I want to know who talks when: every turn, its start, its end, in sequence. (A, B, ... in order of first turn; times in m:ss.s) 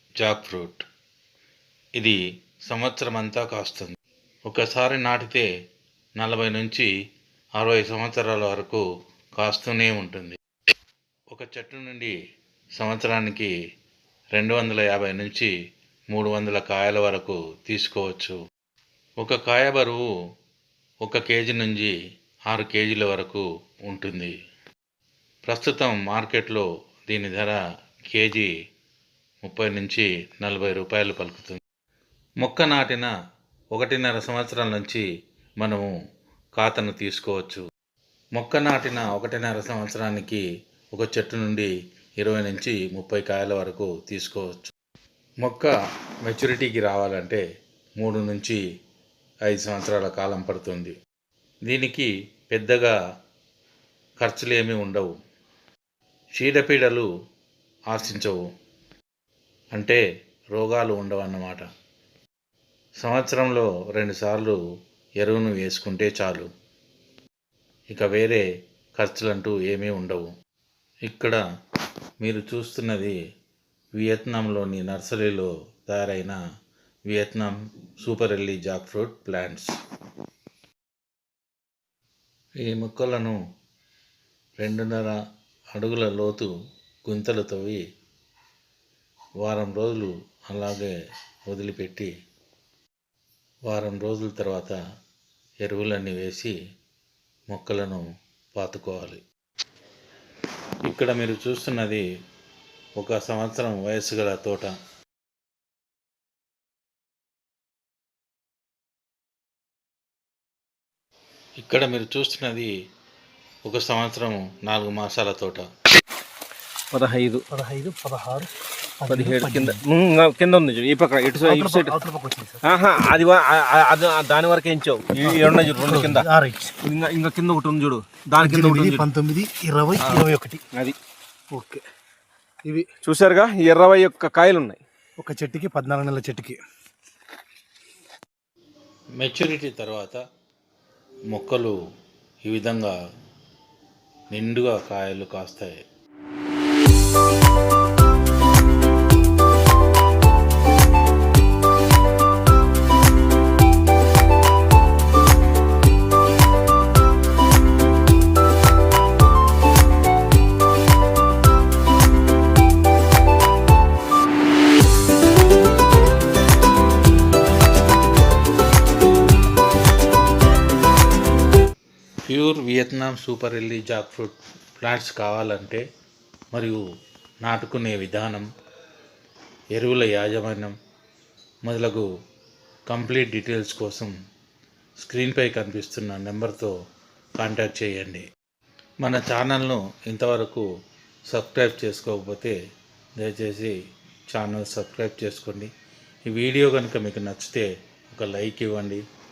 0:00.2-0:00.8 A
0:02.7-0:04.0 A
0:04.5-0:05.5 A
0:06.2-0:06.9 A
0:07.6-0:08.8 A
0:09.4-0:10.4 A
0:11.3-0:12.1 A
0:12.8-0:13.5 A
0:14.4-0:15.5 A
0:16.1-0:18.4 A
0:19.2-0:20.0 A
0:21.0-0:21.9 A
0:22.5-0:24.3 A
0:25.5-0:27.6 A
0:28.1-0:28.5 A
0:29.4-0:31.6 A
0:32.4-0:33.1 A
0:33.7-0:35.0 A
0:35.6-0:35.9 A
0:36.6-0:37.6 A
0:38.4-0:44.7 A
0:45.4-0:45.7 A
0:46.2-0:47.4 A
0:48.0-0:48.6 A
0:49.5-0:51.0 A
0:51.7-0:52.9 A
0:54.2-0:55.1 A
0:56.4-0:57.1 A
0:57.9-0:58.4 A
0:59.7-1:00.0 A
1:00.5-1:01.6 A
1:03.0-1:04.6 A
1:05.2-1:06.5 A
1:07.9-1:08.4 A
1:09.0-1:10.3 A
1:11.0-1:11.4 A
1:12.2-1:13.2 A
1:14.0-1:16.4 A
1:17.1-1:19.7 A
1:22.6-1:23.4 A
1:24.6-1:25.2 A
1:25.8-1:26.5 A
1:27.1-1:27.8 A
1:29.4-1:30.9 A
1:31.5-1:32.1 A
1:33.7-1:34.8 A
1:35.6-1:36.5 A
1:37.5-1:39.2 A
1:40.8-1:42.0 A
1:43.0-1:44.8 A
1:51.6-1:52.7 A
1:53.6-1:55.7 A
1:56.9-1:57.5 B
1:57.5-1:59.8 C
1:59.1-2:02.0 B
2:01.4-2:02.6 C
2:02.6-2:06.3 B
2:05.2-2:06.8 C
2:06.8-2:09.1 B
2:08.4-2:10.6 C
2:10.0-2:11.0 B
2:11.5-2:11.8 C
2:13.0-2:14.8 B
2:15.2-2:16.6 C
2:19.2-2:20.2 A
2:21.3-2:21.8 A
2:22.4-2:23.0 A
2:24.3-2:25.8 A
2:52.2-2:55.8 A
2:56.5-2:56.8 A
2:57.4-2:58.5 A
2:59.7-3:00.8 A
3:01.6-3:02.1 A
3:02.9-3:04.1 A
3:05.0-3:06.7 A
3:07.4-3:08.3 A
3:09.0-3:10.6 A
3:11.3-3:12.6 A
3:13.2-3:13.7 A
3:14.3-3:15.7 A
3:16.3-3:19.0 A